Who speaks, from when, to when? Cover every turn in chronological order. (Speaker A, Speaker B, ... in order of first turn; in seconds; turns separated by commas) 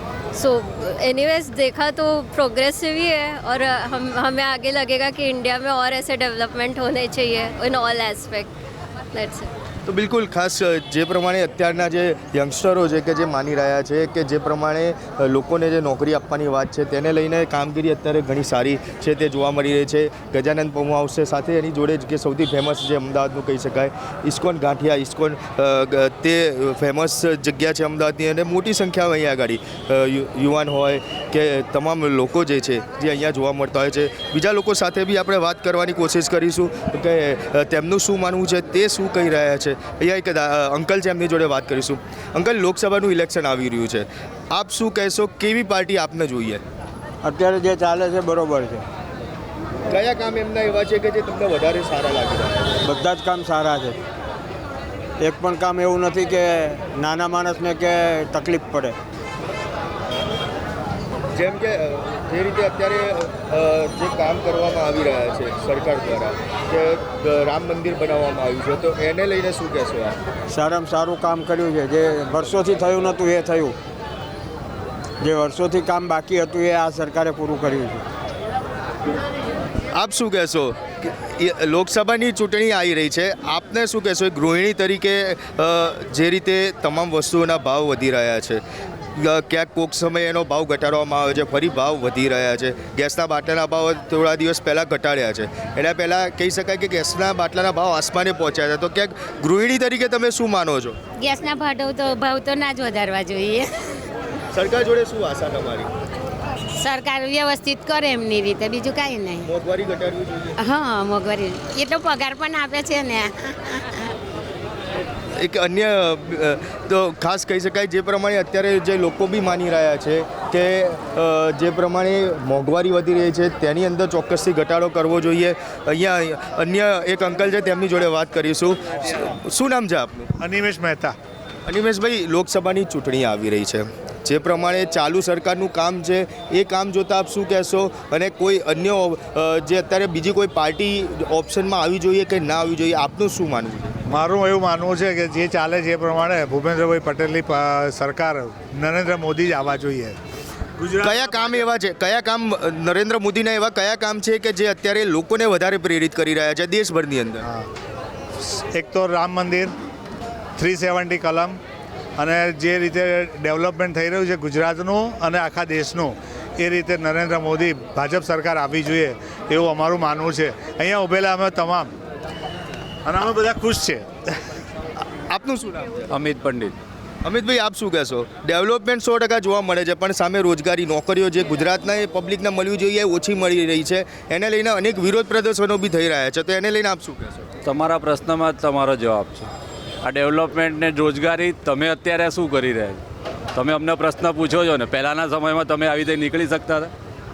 Speaker A: 0.3-8.5, Speaker A: 9.1-9.5, Speaker B: 9.8-46.6, Speaker C: 47.2-48.8, Speaker B: 49.9-52.8, Speaker C: 52.8-53.9, Speaker C: 55.2-58.9, Speaker B: 61.3-70.2, Speaker C: 70.5-73.7, Speaker C: 75.2-78.0, Speaker B: 79.9-88.6, Speaker B: 89.1-101.0, Speaker D: 101.2-103.7, Speaker B: 104.5-105.9, Speaker D: 106.8-109.5, Speaker B: 109.4-110.6, Speaker D: 110.6-114.0, Speaker B: 115.3-130.3, Speaker E: 130.4-131.2, Speaker B: 131.7-144.0, Speaker E: 144.1-150.2, Speaker E: 150.8-151.7, Speaker B: 151.0-157.4, Speaker E: 157.4-157.7, Speaker E: 158.4-159.7, Speaker E: 160.6-161.6, Speaker E: 162.2-171.9, Speaker E: 173.0-174.1, Speaker B: 175.0-176.1, Speaker F: 176.1-176.7, Speaker B: 177.2-187.5, Speaker F: 187.6-189.5, Speaker F: 190.0-193.0, Speaker F: 193.5-196.9